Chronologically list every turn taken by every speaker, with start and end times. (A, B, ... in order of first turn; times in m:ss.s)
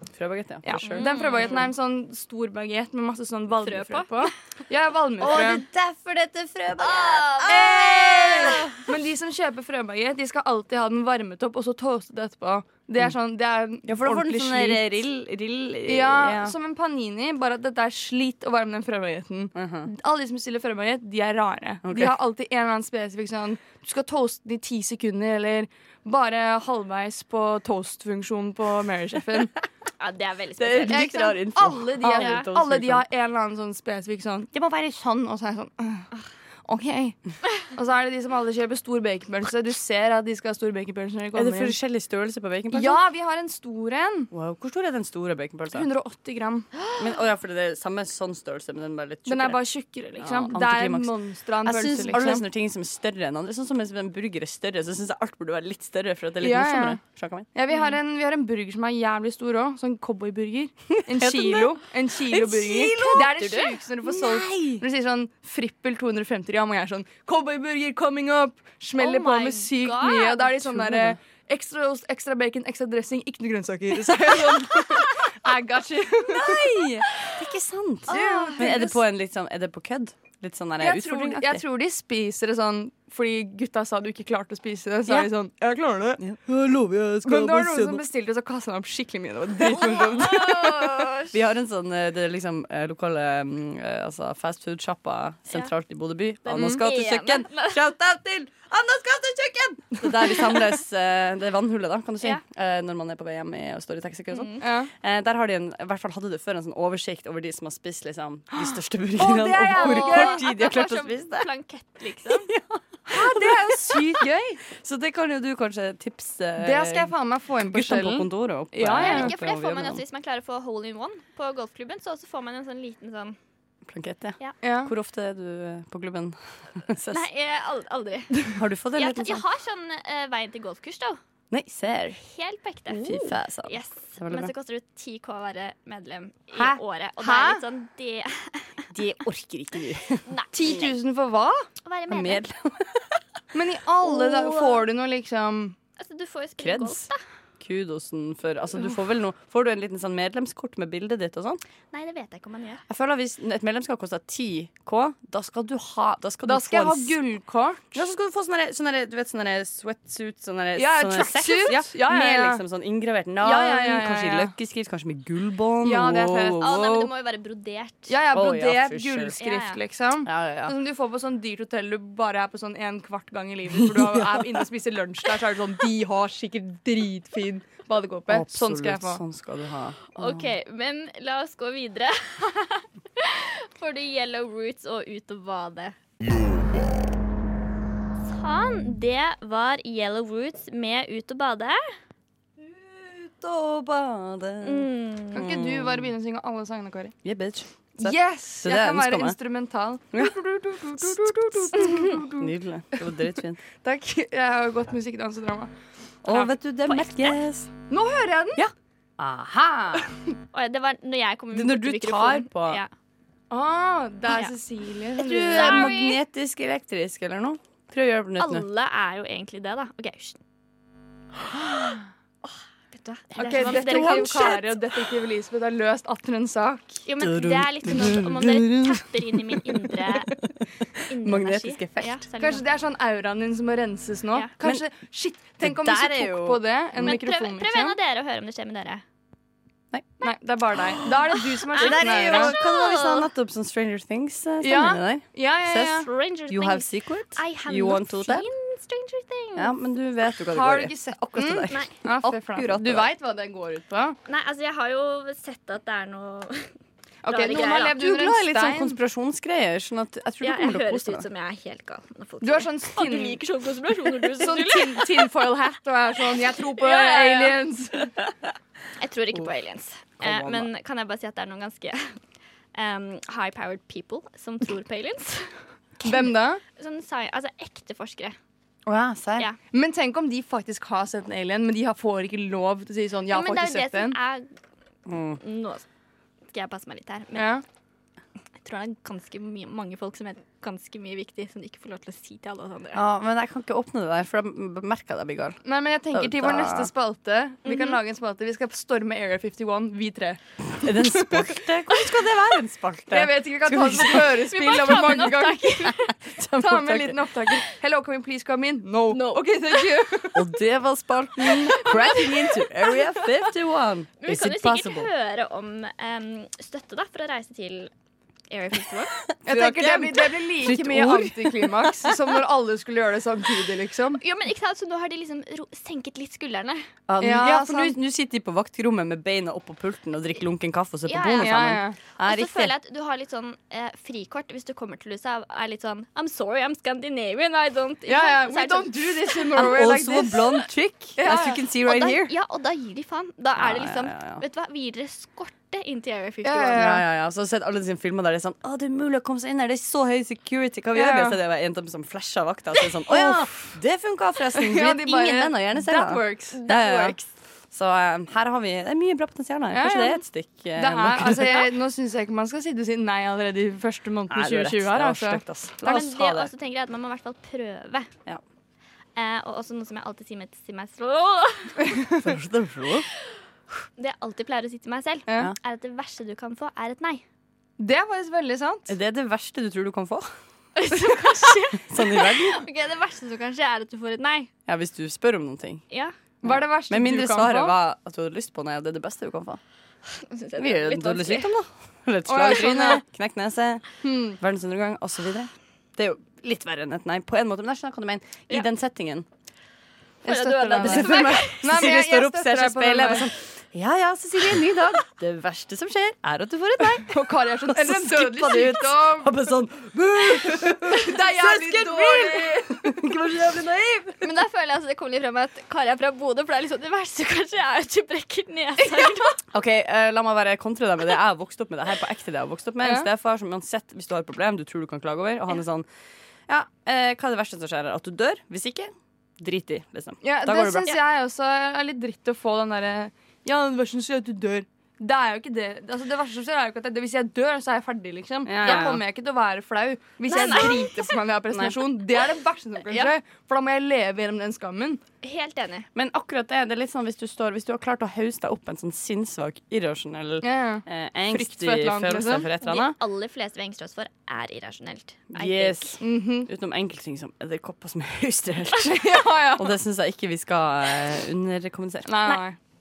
0:00.2-0:01.6 A
0:00.6-0:05.6 B
0:00.8-0:01.6 C
0:03.6-0:04.3 C
0:05.2-0:08.8 A
0:06.8-0:08.7 C
0:07.5-0:14.8 B
0:13.8-0:16.5 A
0:15.8-0:29.5 B
0:19.5-0:19.9 A
0:21.8-0:22.1 A
0:30.0-0:31.3 C
0:30.6-0:33.0 A
0:30.9-0:36.1 B
0:32.0-0:32.5 C
0:36.7-0:41.8 B
0:41.3-0:43.0 A
0:42.7-0:44.3 B
0:44.3-0:45.9 A
0:45.7-0:46.7 B
0:47.0-0:49.6 A
0:49.2-0:52.4 B
0:50.2-0:57.5 A
0:56.4-0:57.0 B
0:57.5-1:16.8 B
1:01.1-1:04.8 A
1:03.4-1:03.6 C
1:09.0-1:10.7 C
1:10.6-1:11.2 A
1:16.3-1:21.6 A
1:18.1-1:19.0 B
1:20.8-1:26.2 B
1:26.2-1:28.0 A
1:27.2-1:31.0 B
1:29.6-1:31.4 C
1:31.3-1:51.5 A
1:36.4-1:37.9 C
1:36.5-1:36.8 B
1:44.3-1:44.6 C
1:44.6-1:44.9 B
1:48.6-1:50.7 B
1:49.7-1:52.5 C
1:52.2-2:00.0 A
1:53.1-1:54.6 B
1:56.6-1:59.3 B
1:59.0-2:03.4 C
2:03.8-2:07.2 A
2:04.6-2:04.9 B
2:07.1-2:11.2 C
2:08.5-2:09.4 A
2:11.5-2:12.2 A
2:12.2-2:13.1 C
2:12.9-2:14.5 A
2:13.0-2:13.3 B
2:13.6-2:18.8 C
2:16.5-2:16.8 A
2:17.2-2:17.6 B
2:18.9-2:20.3 A
2:20.2-2:20.9 C
2:20.5-2:21.7 B
2:21.8-2:22.5 C
2:22.1-2:23.2 A
2:23.5-2:25.8 B
2:24.0-2:24.8 A
2:26.0-2:27.2 C
2:26.6-2:27.1 A
2:27.6-2:31.6 A
2:31.9-2:32.8 C
2:32.9-2:37.2 A
2:36.4-2:38.0 B
2:37.9-2:47.1 A
2:40.8-2:42.6 B
2:43.4-2:44.5 B
2:45.8-2:46.9 B
2:46.6-2:48.2 C
2:48.1-2:59.2 B
2:48.3-2:49.4 A
2:49.4-2:49.8 C
2:50.2-2:50.8 A
2:53.8-2:54.6 A
2:58.3-3:00.5 A
3:00.2-3:06.0 C
3:08.2-3:11.8 C
3:12.6-3:16.1 A
3:14.6-3:15.5 C
3:15.3-3:17.1 B
3:17.2-3:19.4 A
3:18.0-3:23.0 B
3:20.1-3:23.6 A
3:23.8-3:25.7 B
3:26.2-3:27.7 A
3:26.3-3:26.5 B
3:26.8-3:27.3 C
3:27.9-3:28.6 B
3:28.5-3:30.1 A
3:30.5-3:32.9 C
3:31.5-3:32.8 A
3:33.5-3:36.0 B
3:35.2-3:38.6 A
3:35.5-3:36.2 C
3:38.4-3:40.4 C
3:42.9-3:44.6 C
3:43.3-3:44.8 A
3:43.4-3:47.0 B
3:47.0-3:50.3 C
3:47.2-3:50.4 A
3:51.1-3:52.6 C
3:51.2-3:52.2 A
3:52.4-3:58.0 B
3:55.6-3:57.1 A
3:57.0-3:59.0 C
4:00.2-4:02.6 B
4:01.7-4:03.3 C
4:01.8-4:08.5 A
4:04.6-4:06.1 B
4:05.9-4:09.7 C
4:09.5-4:13.1 A
4:10.5-4:14.2 B
4:14.3-4:16.7 C
4:17.2-4:19.0 B
4:17.2-4:18.0 C
4:17.8-4:21.3 A
4:20.4-4:25.1 C
4:22.4-4:23.4 B
4:24.4-4:28.1 B
4:26.8-4:27.6 C
4:29.0-4:32.2 C
4:30.2-4:30.7 A
4:32.7-4:38.4 C
4:36.0-4:36.6 B
4:38.8-4:39.5 A
4:39.7-4:44.2 B
4:43.3-4:44.5 C
4:45.1-4:45.4 A
4:45.4-4:45.8 C
4:46.5-4:47.5 C
4:47.3-4:47.6 B
4:48.6-4:53.0 C
4:52.9-4:56.9 A
4:55.6-5:01.5 B
4:57.6-4:58.0 C
5:00.8-5:04.5 A
5:03.1-5:05.9 B
5:04.2-5:06.1 C
5:06.1-5:07.2 A
5:06.5-5:10.5 B
5:09.1-5:10.0 C
5:10.3-5:15.1 A
5:11.5-5:12.6 C
5:14.2-5:17.9 C
5:18.5-5:19.1 C
5:19.3-5:22.3 A
5:19.4-5:24.2 B
5:24.2-5:26.8 C
5:27.1-5:32.7 A
5:27.2-5:28.0 B
5:31.1-5:31.7 C
5:31.4-5:32.0 B
5:32.2-5:39.6 C
5:38.1-5:40.5 B
5:39.5-5:42.3 A
5:41.2-5:41.6 B
5:41.8-5:46.8 C
5:43.6-5:44.4 A
5:46.4-5:47.0 B
5:46.7-6:01.7 A
5:50.9-5:51.4 B
5:53.1-5:53.7 B
5:54.6-5:56.6 B
5:56.5-5:57.2 C
5:59.7-6:00.2 B
6:00.7-6:06.0 B
6:04.3-6:06.5 A
6:05.8-6:08.1 C
6:09.2-6:11.9 C
6:12.2-6:13.1 A
6:14.0-6:17.2 C
6:15.3-6:15.5 B
6:17.8-6:18.9 B
6:18.9-6:20.3 A
6:20.8-6:24.5 C
6:21.8-6:22.6 A
6:24.6-6:25.8 A
6:26.4-6:27.8 B
6:26.4-6:29.6 A
6:30.1-6:31.5 C
6:30.6-6:39.2 A
6:32.3-6:33.0 B
6:34.0-6:34.4 B
6:40.2-6:41.6 C
6:40.2-6:43.3 B
6:40.7-6:54.3 A
6:47.0-6:49.4 B
6:50.4-6:53.0 B
6:54.2-6:59.4 C
6:59.5-7:05.8 A
7:02.8-7:03.1 B
7:06.5-7:10.9 A
7:10.2-7:25.0 B
7:18.4-7:19.0 A
7:18.6-7:18.9 C
7:20.3-7:21.0 C
7:22.9-7:23.1 C
7:25.2-7:25.9 C
7:25.9-7:33.0 A
7:30.4-7:32.5 B
7:32.6-7:36.0 C
7:35.3-7:42.4 A
7:36.0-7:36.5 B
7:38.8-7:39.8 B
7:42.0-7:42.6 B